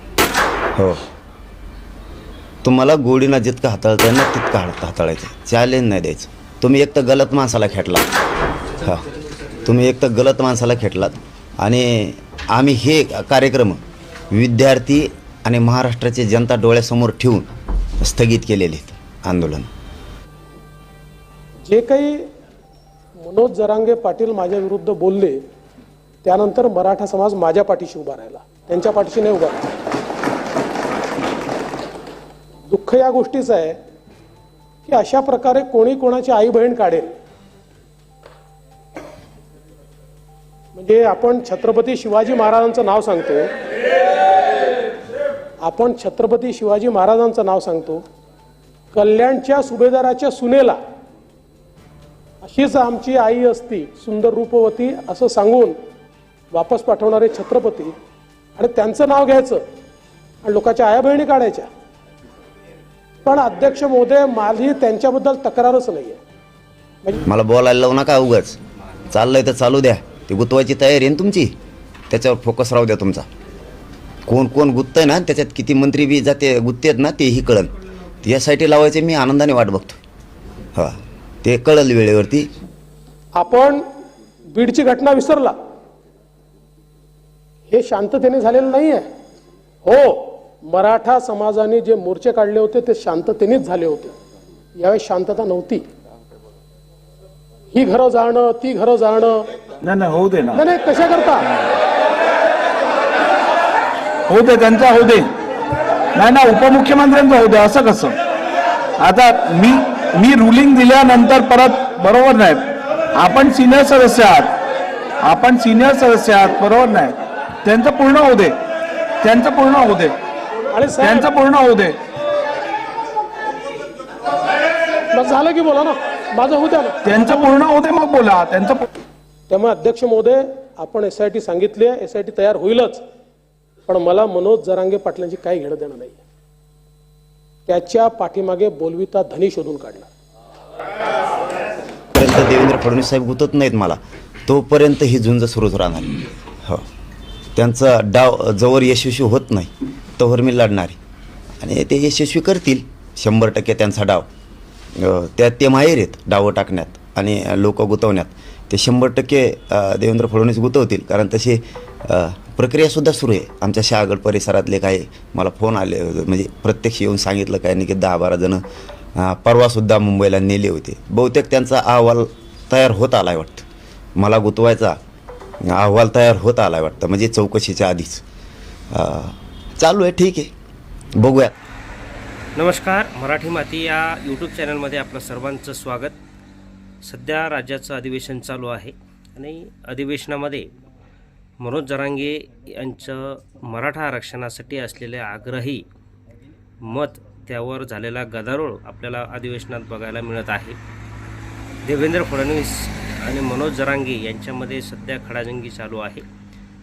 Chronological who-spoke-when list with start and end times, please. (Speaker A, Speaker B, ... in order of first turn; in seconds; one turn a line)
Speaker A: 0.8-1.0
Speaker A: 2.6-8.1
Speaker A: 9.6-13.8
Speaker A: 14.3-17.5
Speaker A: 18.0-19.7
Speaker B: 21.7-22.2
Speaker B: 23.2-25.4
Speaker B: 26.2-29.6
Speaker B: 32.7-33.8
Speaker B: 34.9-37.1
Speaker B: 40.7-43.5
Speaker B: 45.6-48.0
Speaker B: 48.9-50.8
Speaker B: 52.4-55.8
Speaker B: 56.5-57.9
Speaker B: 58.6-59.6
Speaker B: 60.4-61.7
Speaker B: 63.2-66.2
Speaker A: 67.3-68.6
Speaker A: 69.1-71.5
Speaker A: 72.1-73.3
Speaker A: 74.3-80.0
Speaker A: 80.7-82.5
Speaker B: 83.3-83.8
Speaker B: 84.5-85.5
Speaker B: 87.7-89.0
Speaker B: 89.8-94.1
Speaker B: 94.8-95.8
Speaker B: 97.7-99.4
Speaker C: 99.8-100.6
Speaker B: 100.5-101.5
Speaker C: 104.3-105.3
Speaker C: 106.1-108.2
Speaker C: 109.0-114.5
Speaker C: 115.2-118.6
Speaker C: 119.2-120.2
Speaker B: 120.7-121.3
Speaker C: 121.0-122.0
Speaker B: 125.1-127.0
Speaker C: 127.0-128.8
Speaker B: 129.5-133.0
Speaker B: 133.9-136.2
Speaker B: 137.7-140.1
Speaker A: 142.1-146.8
Speaker A: 147.6-151.0
Speaker A: 151.6-154.3
Speaker A: 154.9-168.6
Speaker A: 169.2-173.6
Speaker A: 174.2-175.0
Speaker A: 175.6-178.2
Speaker A: 178.9-180.5
Speaker A: 181.2-181.5
Speaker D: 182.6-186.2
Speaker D: 187.0-190.7
Speaker D: 191.6-195.8
Speaker D: 196.8-200.8
Speaker D: 201.8-206.2